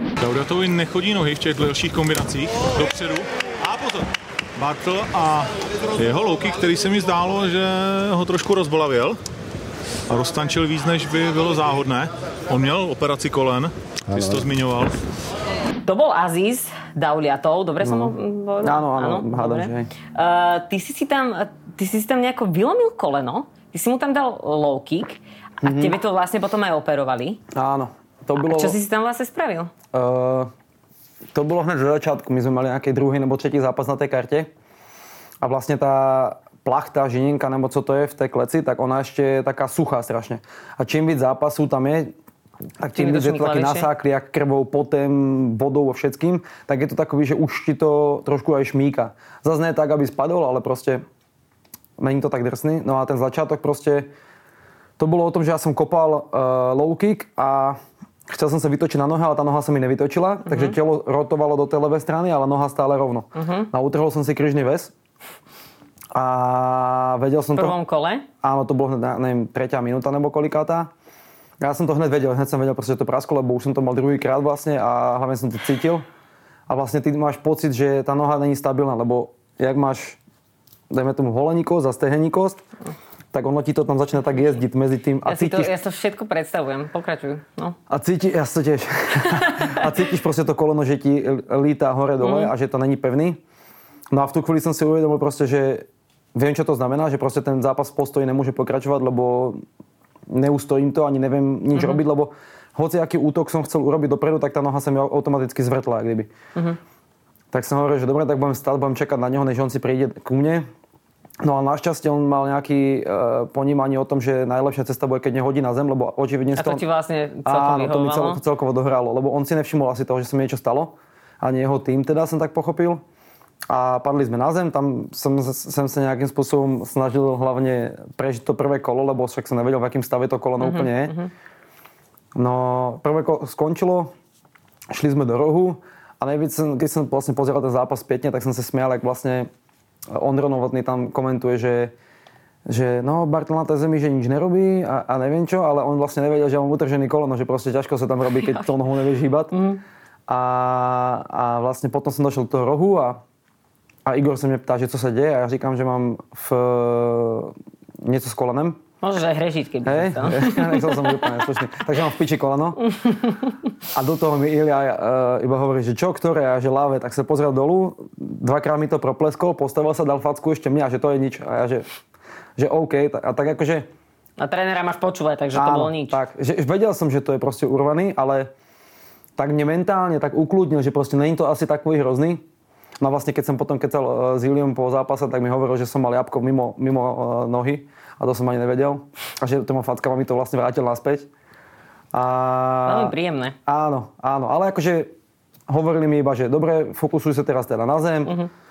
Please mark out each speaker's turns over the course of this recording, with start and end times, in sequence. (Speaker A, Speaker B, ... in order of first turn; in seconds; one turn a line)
Speaker A: 0.2-9.2
Speaker A: 10.1-15.0
Speaker B: 15.8-27.4
Speaker C: 17.8-19.9
Speaker C: 25.6-26.0
Speaker C: 27.5-28.8
Speaker B: 28.4-29.7
Speaker C: 29.9-30.5
Speaker C: 31.3-34.5
Speaker C: 35.4-42.1
Speaker C: 42.8-51.0
Speaker B: 42.9-43.9
Speaker C: 52.0-54.1
Speaker C: 55.0-64.9
Speaker B: 60.5-60.7
Speaker B: 63.4-63.7
Speaker C: 66.1-67.8
Speaker B: 67.5-68.2
Speaker C: 68.4-70.9
Speaker C: 71.6-76.0
Speaker C: 76.7-80.2
Speaker C: 80.9-82.6
Speaker C: 83.3-85.7
Speaker B: 85.2-87.8
Speaker C: 87.9-93.4
Speaker B: 89.2-89.9
Speaker B: 92.2-92.5
Speaker C: 94.1-99.6
Speaker C: 100.3-106.3
Speaker B: 101.7-102.0
Speaker C: 107.5-110.7
Speaker C: 111.4-116.8
Speaker B: 116.5-118.4
Speaker C: 117.4-123.0
Speaker C: 123.7-131.2
Speaker B: 130.6-131.3
Speaker C: 132.3-134.1
Speaker C: 134.9-139.5
Speaker C: 140.1-141.9
Speaker C: 142.7-149.5
Speaker B: 149.5-149.8
Speaker C: 150.3-153.2
Speaker C: 154.1-158.8
Speaker B: 159.0-161.4
Speaker C: 159.8-162.8
Speaker B: 162.9-163.5
Speaker C: 163.9-171.8
Speaker C: 172.6-173.9
Speaker B: 174.4-176.2
Speaker C: 175.5-178.5
Speaker C: 179.4-182.4
Speaker C: 183.0-191.3
Speaker C: 192.1-193.1
Speaker B: 192.8-193.6
Speaker C: 193.7-195.1
Speaker C: 195.7-198.3
Speaker B: 198.2-198.5